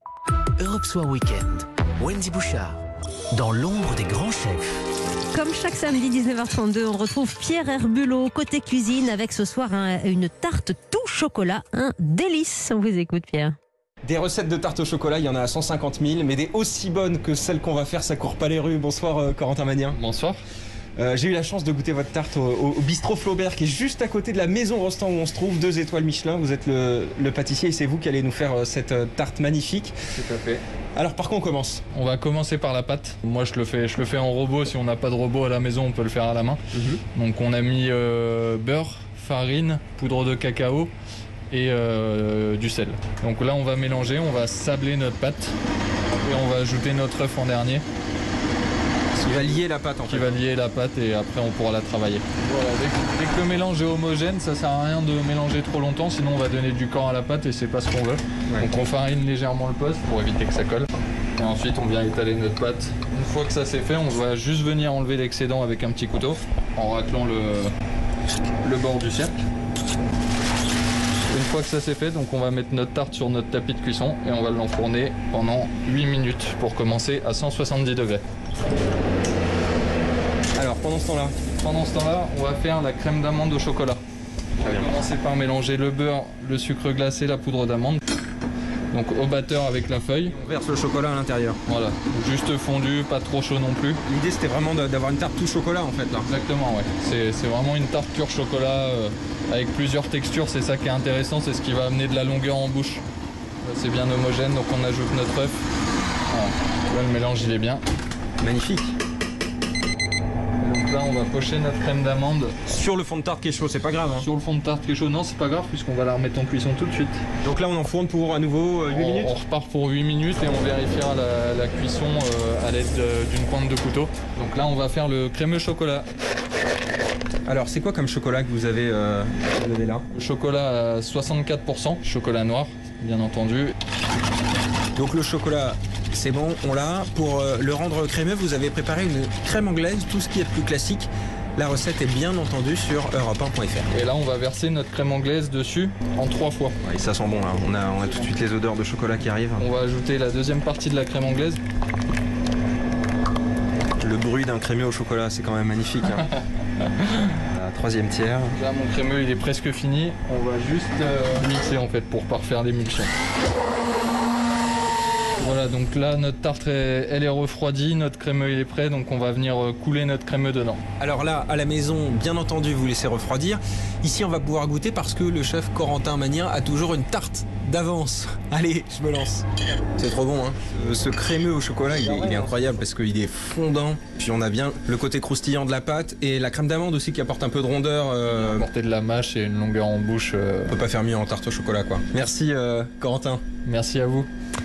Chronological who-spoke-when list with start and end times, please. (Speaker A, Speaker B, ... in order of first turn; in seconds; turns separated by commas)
Speaker A: 0.6-4.8, Speaker B: 5.3-13.6, Speaker C: 14.0-20.0, Speaker D: 19.9-20.4, Speaker C: 21.0-29.9, Speaker D: 30.1-30.6, Speaker C: 30.9-31.8, Speaker D: 31.9-40.9, Speaker C: 36.7-37.0, Speaker D: 41.5-45.6, Speaker D: 46.2-47.9, Speaker C: 49.1-50.4, Speaker D: 50.1-67.7, Speaker D: 68.6-69.4, Speaker D: 71.3-78.2, Speaker C: 80.6-81.4, Speaker D: 81.6-84.0, Speaker D: 84.6-88.0, Speaker C: 84.6-84.9, Speaker D: 88.9-90.4, Speaker C: 90.3-91.6, Speaker D: 91.7-94.0, Speaker C: 94.1-96.3, Speaker D: 96.2-103.0, Speaker D: 103.6-105.7, Speaker D: 106.3-107.8, Speaker C: 108.4-109.0, Speaker D: 110.6-112.6, Speaker C: 112.7-114.3, Speaker D: 114.2-117.2, Speaker C: 117.4-119.3, Speaker D: 118.9-126.1, Speaker C: 127.5-130.1, Speaker D: 130.1-133.8, Speaker C: 135.0-143.9, Speaker D: 143.9-146.8, Speaker C: 146.8-149.7, Speaker D: 147.9-148.3, Speaker D: 149.6-151.6, Speaker C: 154.0-156.3, Speaker D: 156.8-157.3, Speaker C: 157.5-158.6, Speaker D: 158.5-163.1, Speaker D: 165.4-170.8, Speaker C: 171.0-179.5, Speaker C: 180.0-188.7, Speaker D: 188.4-190.8, Speaker C: 190.7-193.4, Speaker D: 193.7-194.3